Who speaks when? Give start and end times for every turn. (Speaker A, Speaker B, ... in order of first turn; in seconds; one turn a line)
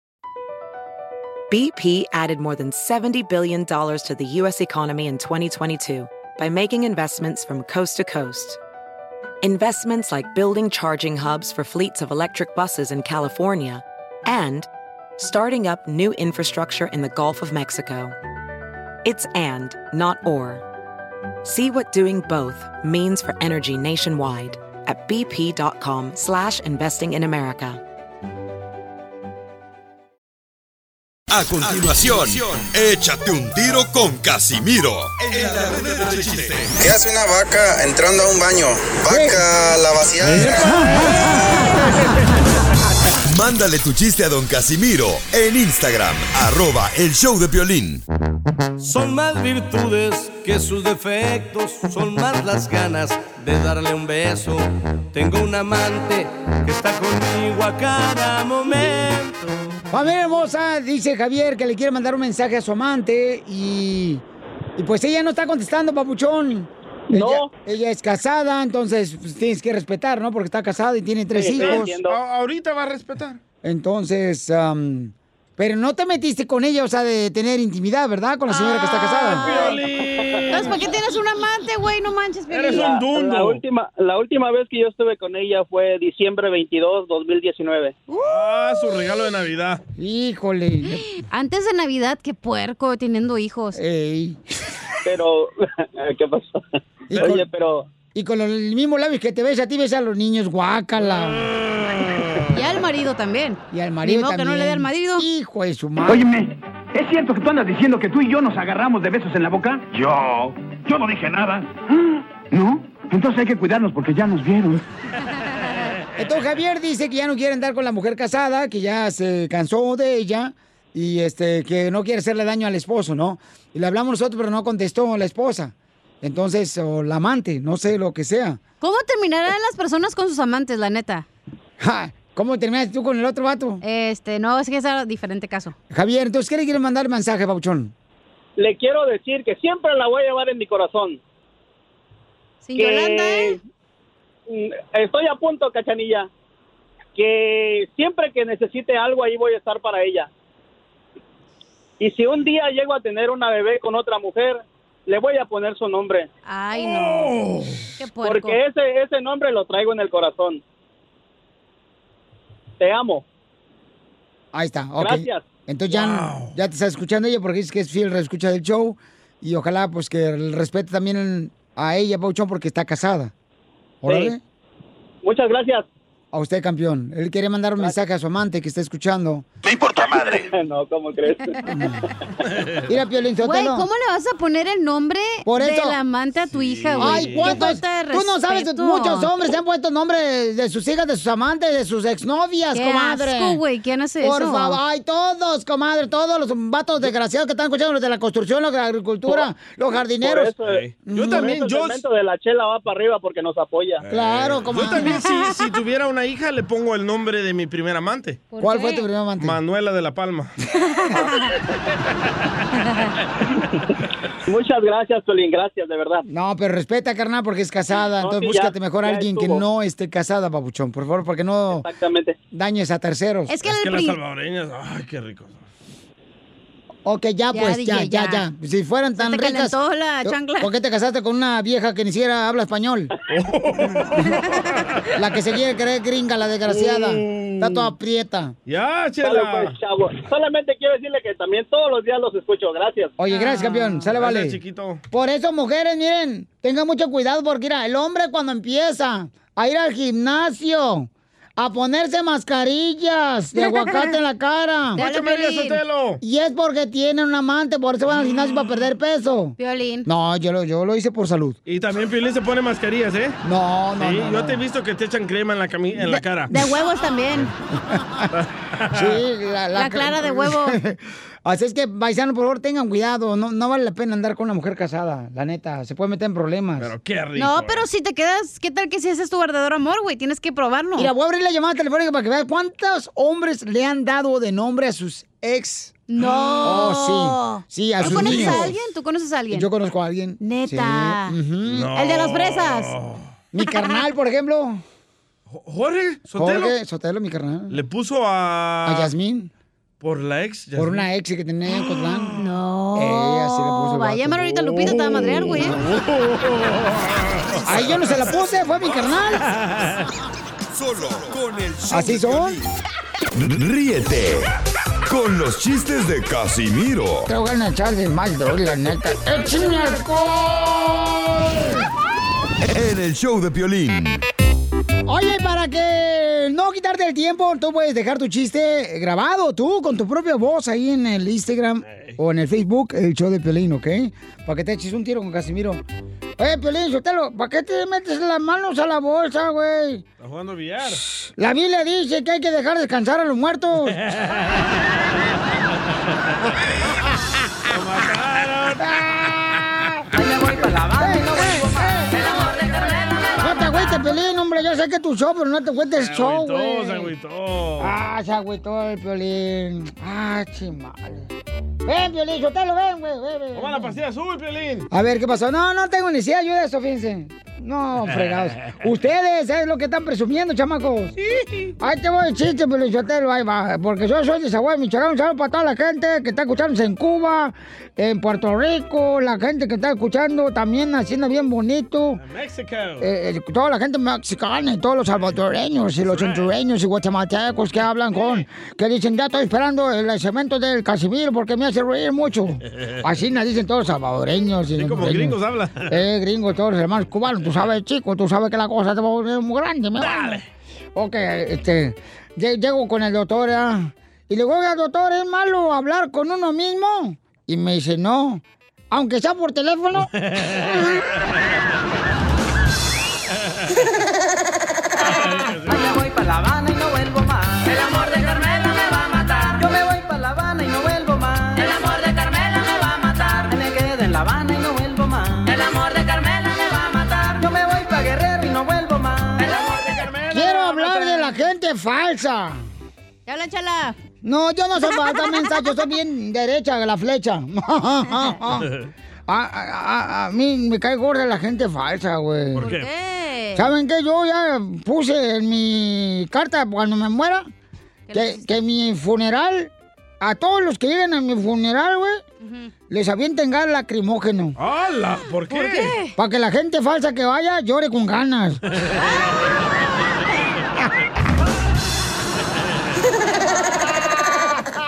Speaker A: 1.5-8.6
Speaker A: 9.4-14.7
Speaker A: 15.2-18.1
Speaker A: 19.0-20.6
Speaker A: 21.4-27.8
Speaker B: 31.3-36.7
Speaker C: 36.8-40.7
Speaker D: 39.1-39.4
Speaker D: 40.2-41.7
Speaker E: 40.2-41.4
Speaker B: 43.2-48.0
Speaker F: 48.8-59.6
Speaker D: 59.9-64.2
Speaker D: 64.8-71.9
Speaker G: 67.1-67.5
Speaker G: 71.3-72.2
Speaker E: 71.5-73.4
Speaker D: 73.6-79.5
Speaker H: 78.5-79.8
Speaker E: 79.5-80.8
Speaker H: 80.5-83.0
Speaker E: 82.5-83.6
Speaker G: 82.7-88.0
Speaker H: 88.1-88.9
Speaker E: 88.2-89.8
Speaker D: 90.0-91.0
Speaker H: 91.2-93.8
Speaker D: 93.7-94.4
Speaker G: 95.0-96.6
Speaker D: 97.1-97.5
Speaker E: 97.1-97.4
Speaker G: 97.2-97.9
Speaker D: 98.1-101.5
Speaker E: 101.6-102.4
Speaker H: 102.5-105.3
Speaker D: 103.7-106.3
Speaker I: 106.0-114.8
Speaker D: 116.2-128.6
Speaker H: 128.8-131.3
Speaker D: 131.8-133.8
Speaker H: 133.8-135.7
Speaker D: 135.9-137.9
Speaker G: 138.6-141.2
Speaker H: 142.6-143.6
Speaker G: 142.8-143.6
Speaker G: 144.5-146.3
Speaker G: 147.1-150.3
Speaker G: 152.0-156.3
Speaker H: 156.4-157.3
Speaker E: 156.8-157.9
Speaker H: 158.0-158.6
Speaker G: 158.2-160.6
Speaker G: 162.8-163.2
Speaker D: 164.5-173.3
Speaker G: 165.0-165.5
Speaker E: 165.9-166.5
Speaker D: 174.0-174.4
Speaker G: 174.1-174.3
Speaker G: 175.2-175.8
Speaker D: 176.3-179.4
Speaker I: 179.7-180.4
Speaker G: 180.4-181.5
Speaker D: 182.9-183.9
Speaker H: 183.4-189.3
Speaker D: 185.4-186.0
Speaker E: 186.5-187.6
Speaker D: 186.9-193.6
Speaker H: 192.7-194.8
Speaker D: 194.2-200.5
Speaker G: 200.2-204.0
Speaker E: 200.7-202.0
Speaker D: 201.1-201.6
Speaker E: 204.0-208.5
Speaker D: 204.1-205.2
Speaker H: 208.5-209.0
Speaker D: 208.6-209.6
Speaker E: 209.4-210.5
Speaker H: 212.8-213.1
Speaker G: 214.4-216.2
Speaker D: 216.3-221.9
Speaker G: 218.2-219.6
Speaker G: 221.7-222.4
Speaker D: 222.5-223.5
Speaker H: 223.5-224.2
Speaker E: 223.6-225.6
Speaker D: 227.0-233.1
Speaker H: 227.5-228.4
Speaker H: 229.2-230.7
Speaker E: 233.3-234.8
Speaker D: 235.2-238.6
Speaker E: 236.7-237.9
Speaker E: 238.7-239.8
Speaker G: 239.2-243.1
Speaker D: 243.2-244.6
Speaker H: 243.3-244.0
Speaker E: 244.1-245.0
Speaker D: 245.1-255.0
Speaker E: 255.0-256.2
Speaker H: 255.0-255.8
Speaker D: 256.2-261.6
Speaker H: 259.6-260.1
Speaker E: 261.6-263.4
Speaker D: 263.4-264.6
Speaker E: 264.0-266.5
Speaker H: 266.5-267.5
Speaker D: 267.7-268.3
Speaker E: 268.3-269.0
Speaker D: 268.9-276.9
Speaker H: 269.7-270.8
Speaker E: 276.8-277.8
Speaker H: 277.4-281.1
Speaker D: 281.0-286.0
Speaker H: 286.1-289.7
Speaker E: 286.3-286.7
Speaker D: 286.6-288.7
Speaker E: 288.0-288.7
Speaker D: 289.5-291.9
Speaker H: 290.4-291.4
Speaker E: 291.6-293.2
Speaker H: 291.9-292.9
Speaker D: 293.5-294.8
Speaker E: 295.5-296.7
Speaker D: 296.3-297.8
Speaker E: 297.7-299.1
Speaker D: 298.8-299.5
Speaker E: 300.0-301.1
Speaker D: 300.8-302.3
Speaker E: 301.7-302.3
Speaker H: 302.3-305.8
Speaker D: 302.9-305.7
Speaker E: 305.6-308.3
Speaker D: 307.6-309.4
Speaker E: 309.5-310.1
Speaker B: 310.7-312.7
Speaker D: 311.9-312.6
Speaker B: 313.4-314.5
Speaker B: 315.1-317.3
Speaker D: 317.3-321.9
Speaker B: 322.6-324.2
Speaker D: 325.1-335.8
Speaker D: 336.4-340.0
Speaker E: 340.2-341.0
Speaker D: 341.2-344.0
Speaker E: 343.9-344.6
Speaker E: 347.7-349.8
Speaker D: 349.0-349.3
Speaker D: 350.9-352.2
Speaker G: 351.1-351.6
Speaker D: 353.4-357.1
Speaker E: 356.0-357.9
Speaker D: 357.8-361.3
Speaker D: 361.9-363.9
Speaker E: 363.5-364.9
Speaker D: 364.9-371.1
Speaker E: 368.1-368.7
Speaker E: 371.3-371.7
Speaker D: 371.8-382.2
Speaker E: 382.2-383.1
Speaker D: 383.0-400.4
Speaker E: 386.1-386.4
Speaker E: 394.7-396.0
Speaker E: 400.0-400.4
Speaker D: 400.9-410.1
Speaker E: 410.3-410.8
Speaker E: 415.0-416.0
Speaker J: 416.5-418.8
Speaker J: 419.9-421.4
Speaker J: 423.4-425.3
Speaker E: 429.4-431.2
Speaker D: 430.3-432.6
Speaker H: 433.2-434.0
Speaker D: 434.2-438.7
Speaker H: 434.9-435.7
Speaker D: 439.3-442.7
Speaker E: 442.5-442.9
Speaker H: 442.6-443.7
Speaker D: 443.5-447.5
Speaker H: 448.1-448.5
Speaker D: 448.1-452.2
Speaker H: 452.4-452.7
Speaker D: 452.9-454.6
Speaker E: 454.6-455.9
Speaker H: 455.5-456.1
Speaker D: 456.1-458.6
Speaker E: 458.7-459.3
Speaker D: 464.3-464.6